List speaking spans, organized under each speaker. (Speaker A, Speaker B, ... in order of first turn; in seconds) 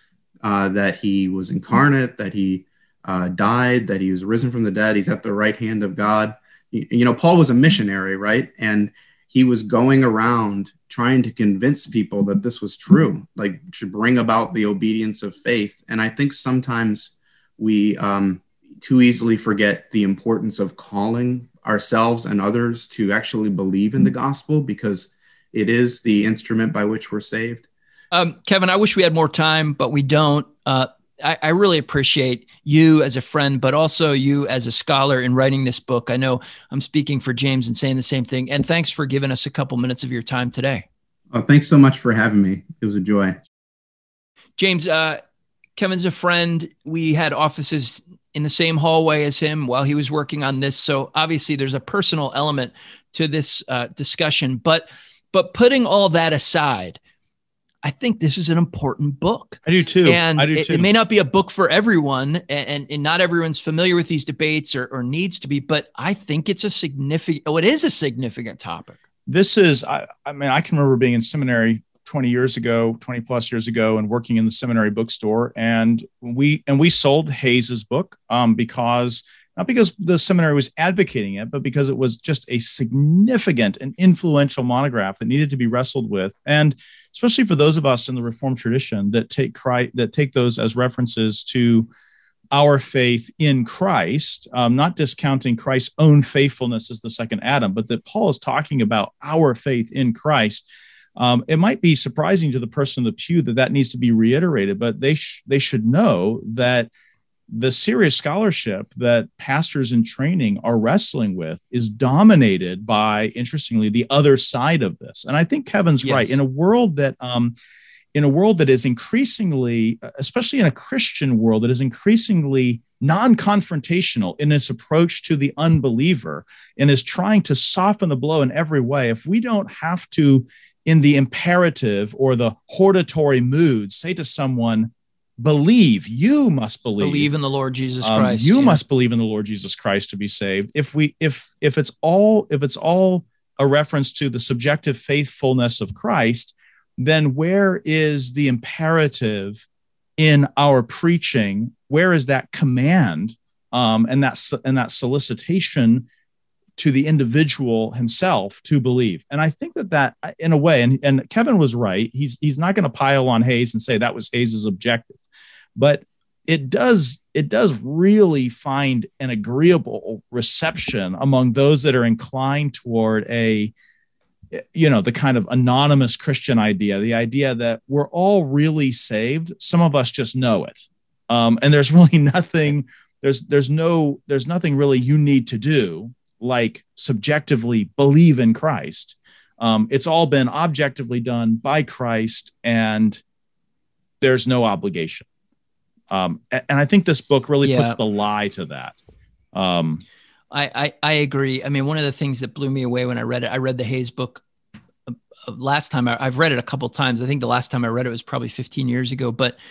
Speaker A: 0.4-27.6, 41.3-43.4
Speaker B: 28.1-40.9, 44.6-45.2, 45.8-57.0, 57.8-69.0, 116.0-116.3, 137.0-138.8, 197.6-198.0, 200.5-204.4, 205.1-209.6
Speaker C: 59.6-60.9, 69.3-91.9, 92.5-100.6, 101.2-106.9, 107.5-117.5, 118.1-137.3, 138.0-149.6, 150.2-156.1, 156.8-165.2, 165.8-173.7, 174.5-193.2, 194.2-195.2, 196.1-199.0, 199.5-200.0